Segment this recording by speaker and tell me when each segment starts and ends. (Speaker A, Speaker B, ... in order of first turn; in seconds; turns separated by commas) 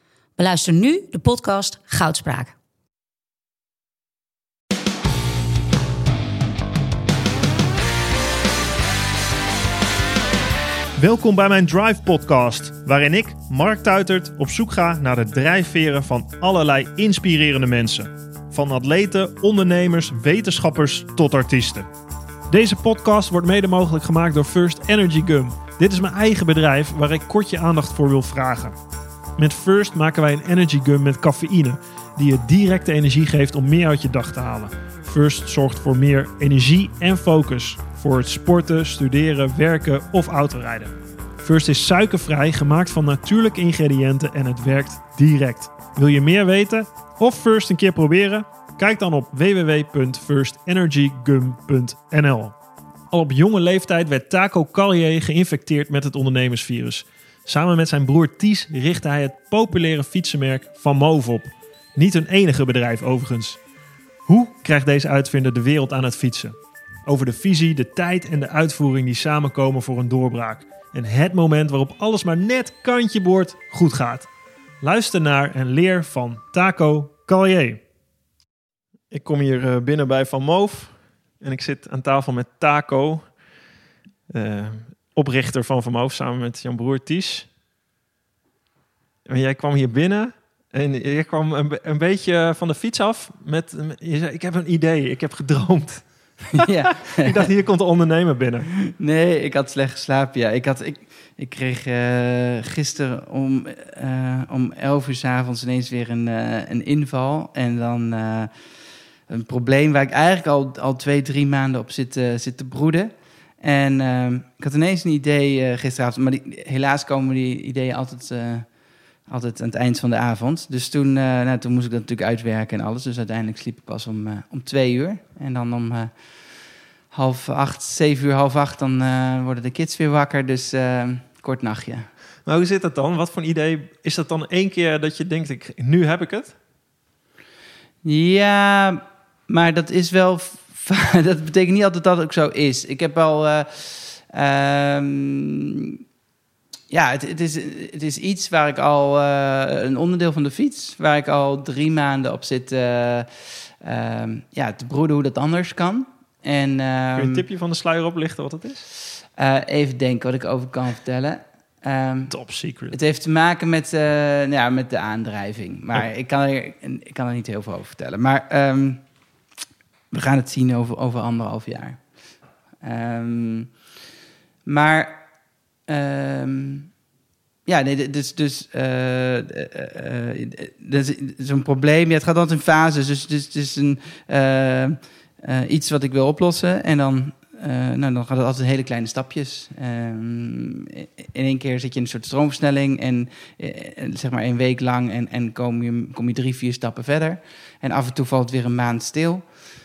Speaker A: 0.4-2.5, Speaker B: 11.0-21.9, Speaker B: 22.5-28.8, Speaker B: 29.4-52.6, Speaker B: 53.1-63.6, Speaker B: 64.2-74.3, Speaker B: 74.8-77.8, Speaker B: 79.1-83.3, Speaker B: 84.3-87.5, Speaker B: 89.2-98.7, Speaker C: 96.5-97.5, Speaker C: 98.9-108.5, Speaker C: 109.3-118.7, Speaker C: 119.2-126.2, Speaker C: 127.1-132.1, Speaker B: 132.4-136.5, Speaker C: 138.0-146.0, Speaker C: 146.9-157.4, Speaker B: 157.2-158.8, Speaker C: 159.4-162.3, Speaker B: 162.3-162.9, Speaker C: 162.9-169.0, Speaker C: 170.1-172.0, Speaker C: 172.8-173.7, Speaker C: 174.7-175.2, Speaker C: 175.9-176.9, Speaker C: 177.7-199.5